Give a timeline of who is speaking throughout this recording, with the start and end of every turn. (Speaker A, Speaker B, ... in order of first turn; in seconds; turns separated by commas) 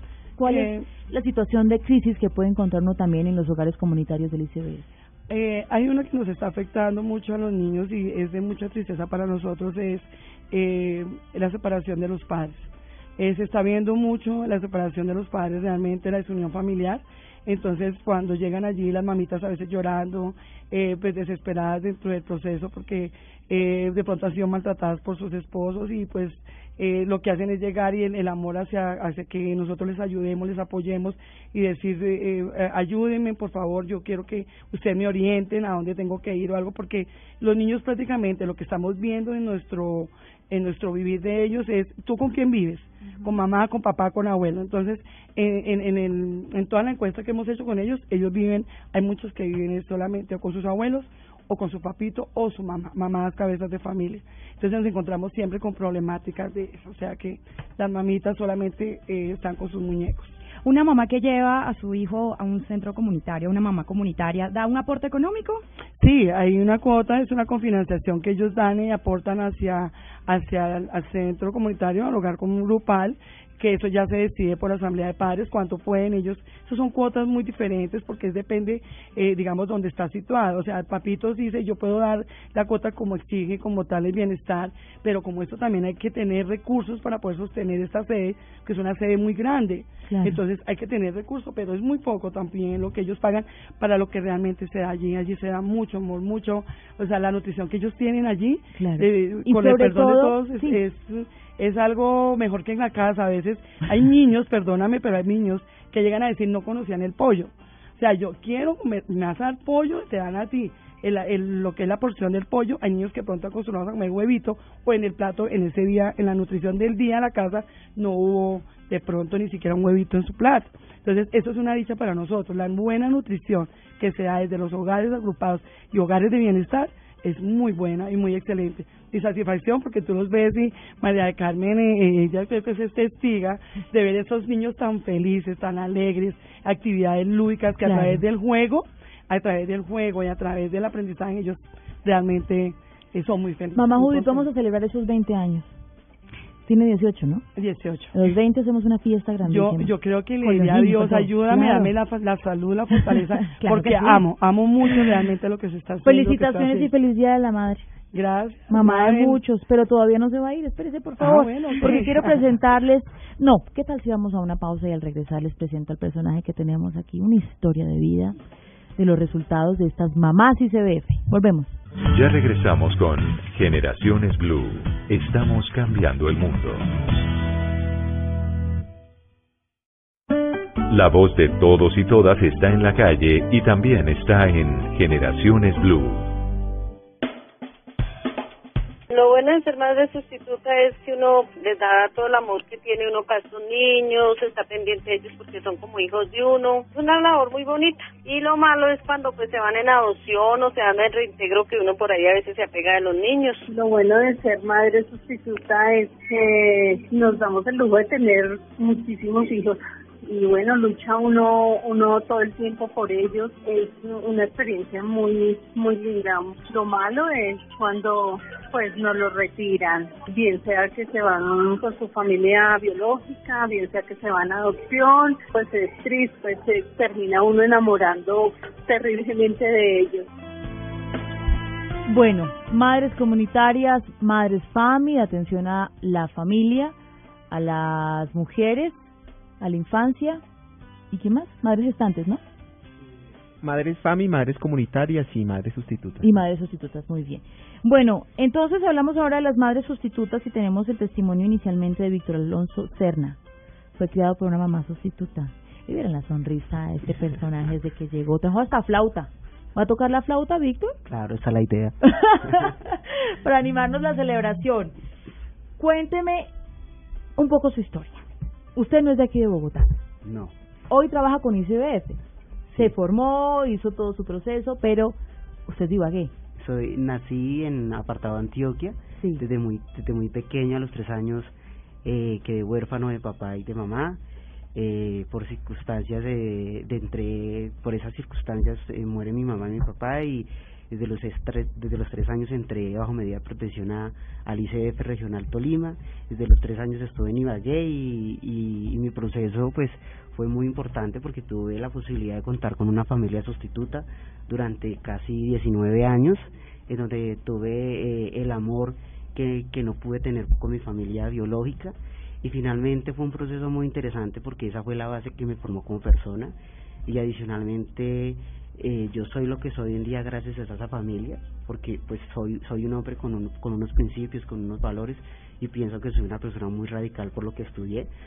Speaker A: 0.4-4.9, Speaker B: 0.4-0.9, Speaker B: 5.3-60.4, Speaker C: 60.5-65.6, Speaker B: 66.0-144.5, Speaker A: 90.1-90.4, Speaker A: 98.8-100.8, Speaker A: 137.8-138.2, Speaker A: 143.8-145.8, Speaker A: 146.6-147.5, Speaker B: 147.6-148.2, Speaker A: 148.1-151.9, Speaker B: 149.4-156.9, Speaker A: 153.1-154.2, Speaker A: 156.0-157.9, Speaker B: 158.1-159.4, Speaker A: 158.7-168.4, Speaker B: 161.2-162.4, Speaker A: 169.0-171.8, Speaker D: 172.1-176.8, Speaker D: 180.9-186.3, Speaker E: 189.1-203.7, Speaker F: 203.7-230.3, Speaker A: 232.1-236.9, Speaker A: 237.5-240.4, Speaker A: 241.1-242.4, Speaker G: 243.6-246.3, Speaker A: 246.2-253.4, Speaker A: 254.0-261.0, Speaker H: 261.1-262.0, Speaker A: 262.1-264.9, Speaker A: 265.8-266.5, Speaker A: 267.4-268.2, Speaker A: 268.8-269.9, Speaker H: 270.2-270.5, Speaker A: 270.9-272.2, Speaker A: 272.8-276.3, Speaker H: 276.6-284.2, Speaker H: 284.8-328.1